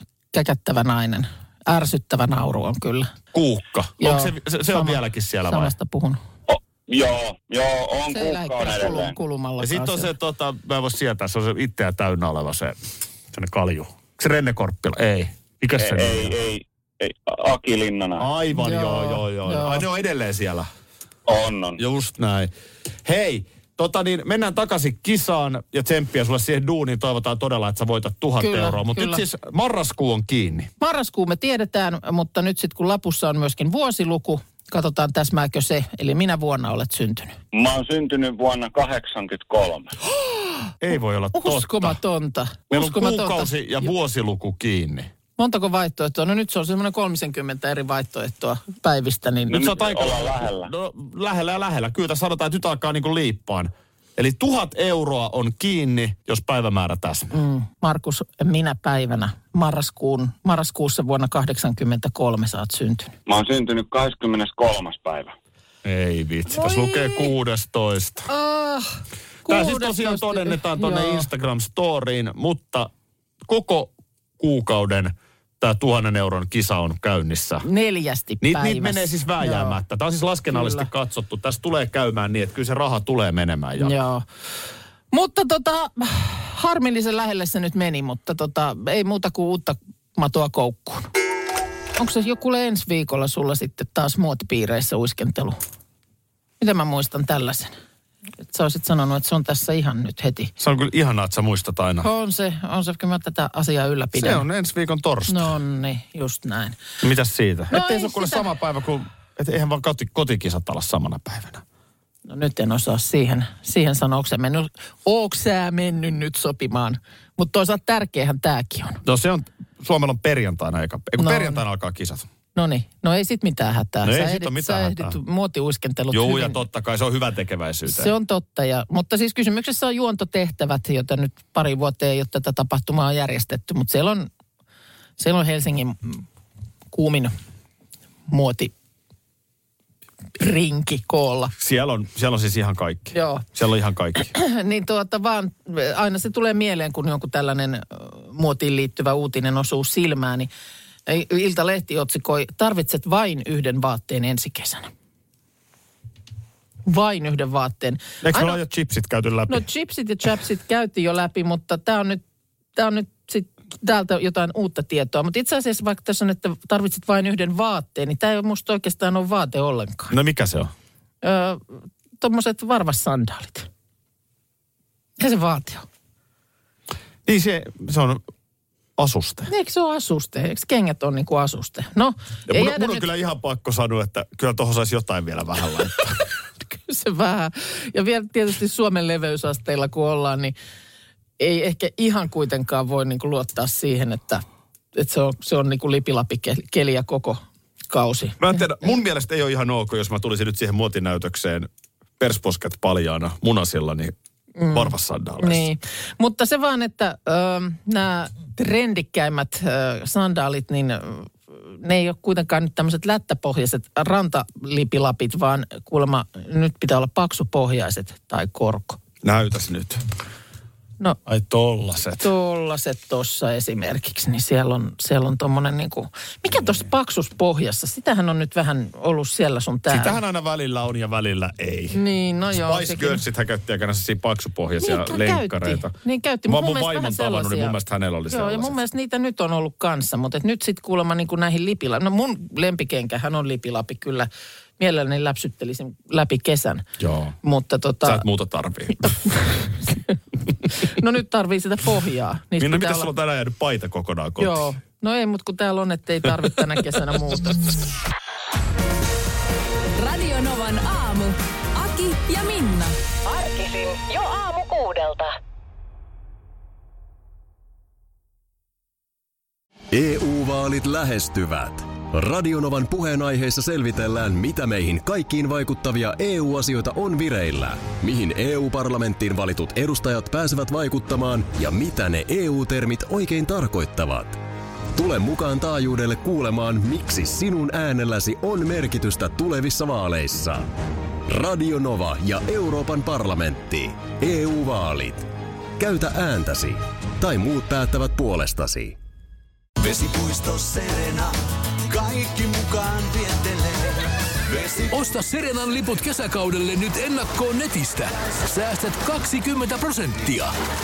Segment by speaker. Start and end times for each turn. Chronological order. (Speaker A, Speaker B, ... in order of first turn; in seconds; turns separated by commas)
Speaker A: 0.3-3.1, Speaker B: 3.3-5.8, Speaker A: 4.0-6.2, Speaker C: 6.5-9.2, Speaker A: 8.1-10.1, Speaker B: 9.6-12.8, Speaker B: 13.3-16.4, Speaker C: 15.8-18.3, Speaker B: 18.2-20.7, Speaker A: 18.5-19.8, Speaker C: 21.3-21.8, Speaker B: 21.8-22.5, Speaker B: 23.1-30.7, Speaker A: 28.4-29.2, Speaker A: 30.8-37.4, Speaker C: 37.5-40.0, Speaker B: 40.8-42.0, Speaker A: 41.3-43.5, Speaker B: 42.7-45.1, Speaker A: 45.4-49.6, Speaker C: 49.5-50.7, Speaker B: 49.5-57.4, Speaker A: 57.3-63.1, Speaker C: 63.3-65.3, Speaker B: 65.8-68.3, Speaker A: 66.5-67.3, Speaker A: 68.3-71.3, Speaker B: 69.5-72.9, Speaker B: 73.5-77.7, Speaker A: 77.6-79.8, Speaker B: 78.4-84.0, Speaker A: 80.5-80.9, Speaker A: 83.8-84.2, Speaker A: 85.1-91.1, Speaker A: 92.0-95.6, Speaker A: 96.6-97.8, Speaker A: 98.5-100.5, Speaker B: 100.6-102.1, Speaker A: 102.0-104.4, Speaker B: 104.2-105.6, Speaker A: 105.3-106.8, Speaker B: 107.0-111.6, Speaker A: 107.7-108.5, Speaker A: 112.3-119.0, Speaker B: 119.0-122.3, Speaker A: 121.2-121.6, Speaker A: 122.5-126.6, Speaker B: 124.0-125.2, Speaker B: 126.1-128.1, Speaker A: 127.9-134.3, Speaker A: 135.2-136.2, Speaker A: 136.9-137.3, Speaker A: 138.3-138.7, Speaker A: 140.4-141.5, Speaker B: 141.6-144.3, Speaker A: 143.1-143.4, Speaker A: 144.3-150.5, Speaker A: 151.1-154.9, Speaker A: 156.9-158.6, Speaker B: 158.2-159.7, Speaker A: 159.5-162.2, Speaker A: 162.8-170.1, Speaker B: 170.1-170.7, Speaker A: 171.2-173.7, Speaker A: 175.2-175.9, Speaker B: 177.3-178.2, Speaker B: 179.0-179.5, Speaker A: 179.5-183.1, Speaker B: 182.5-186.2, Speaker A: 186.7-190.6, Speaker A: 191.4-194.4, Speaker A: 194.9-198.9, Speaker B: 198.4-201.7, Speaker B: 202.2-204.1, Speaker A: 204.6-219.0, Speaker B: 204.7-205.7, Speaker B: 219.2-220.0, Speaker B: 221.3-222.3, Speaker A: 222.2-230.2, Speaker B: 229.9-232.0, Speaker A: 231.9-233.2, Speaker B: 232.5-235.9, Speaker A: 234.8-237.8, Speaker B: 236.5-238.8, Speaker A: 238.3-246.9, Speaker B: 247.0-247.3, Speaker A: 247.4-248.2, Speaker B: 248.0-249.2, Speaker A: 249.4-250.1, Speaker A: 250.7-253.1, Speaker B: 252.6-254.7, Speaker A: 254.4-257.6, Speaker D: 259.9-263.0, Speaker E: 263.2-265.4, Speaker F: 269.9-284.4, Speaker F: 284.9-290.7, Speaker F: 291.3-299.0, Speaker G: 299.8-305.1, Speaker H: 304.9-310.5